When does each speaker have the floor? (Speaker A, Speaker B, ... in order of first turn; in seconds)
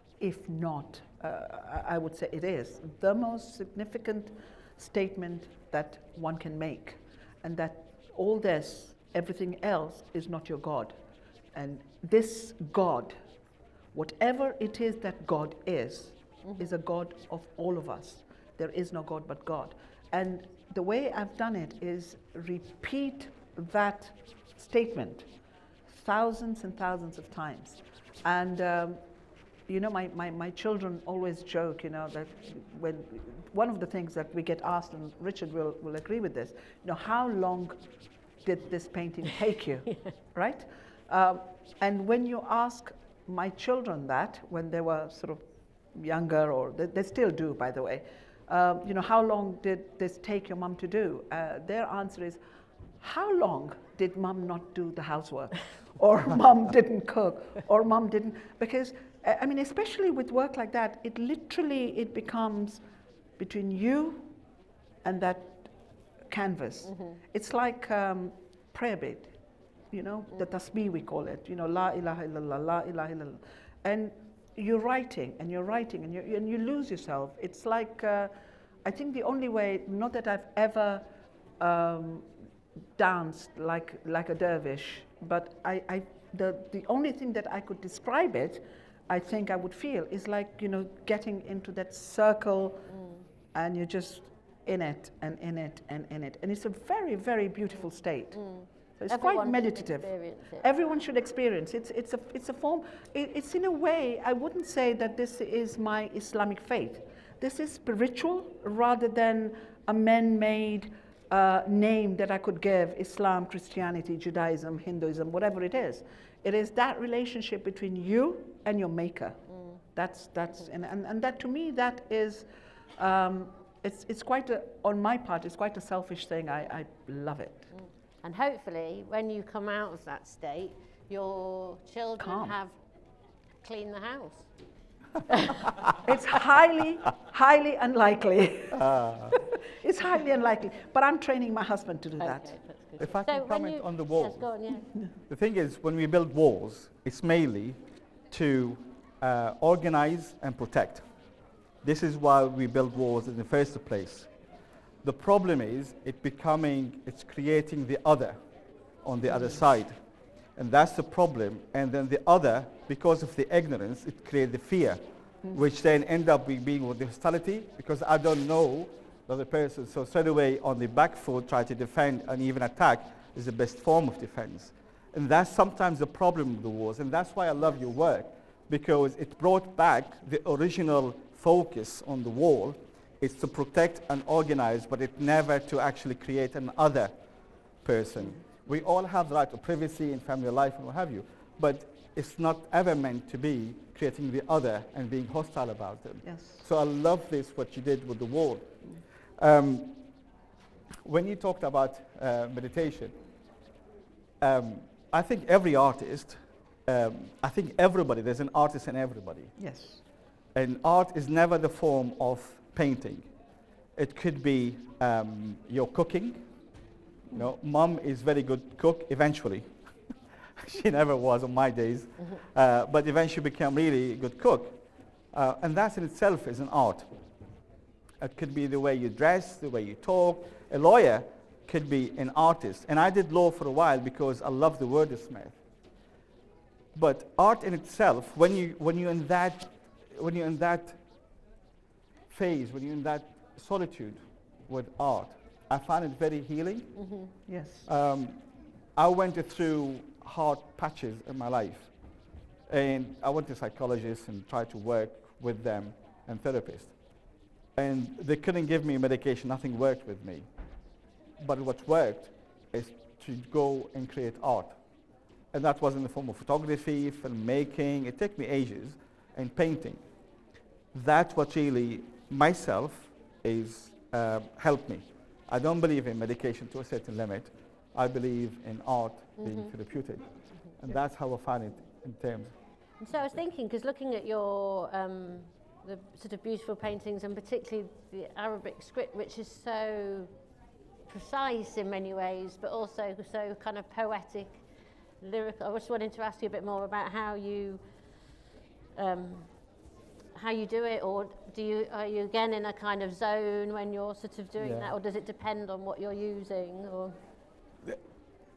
Speaker A: 0.2-10.9, 11.5-13.2, 13.9-25.3, 25.9-29.0, 29.7-37.8, 38.4-45.4, 45.9-52.4, 53.0-62.8, 63.4-64.3, 65.0-65.7, 66.3-69.3, 69.9-78.3, 78.8-81.0, 81.6-82.3, 83.0-92.8, 93.5-98.4, 99.0-119.4, 119.9-122.5, 123.0-127.7, 132.2-132.5, 136.0-142.5, 159.2-159.6, 196.2-196.6, 209.6-210.0, 247.5-247.8
Speaker B: 92.9-93.2, 98.3-100.7, 128.2-132.8, 133.6-134.5, 135.3-135.7, 142.2-144.9, 247.0-247.3, 279.4-279.7, 283.0-290.3, 291.1-294.6, 295.2-297.8, 298.9-299.6, 300.3-307.2
Speaker C: 138.7-139.4, 143.0-144.5, 145.3-147.8, 148.3-151.1, 151.8-154.3, 155.0-158.4, 159.0-159.9, 160.6-165.0, 165.5-187.1, 187.8-198.8, 199.4-200.0, 201.0-203.1, 204.4-209.5, 210.5-213.3, 213.9-216.4, 217.3-219.7, 220.6-224.8, 225.3-227.1, 228.2-235.6, 236.9-241.0, 242.3-246.9, 247.8-248.4, 248.9-251.9, 252.7-256.9, 257.8-260.5, 261.4-264.8, 265.5-270.0, 270.9-282.5, 304.6-304.9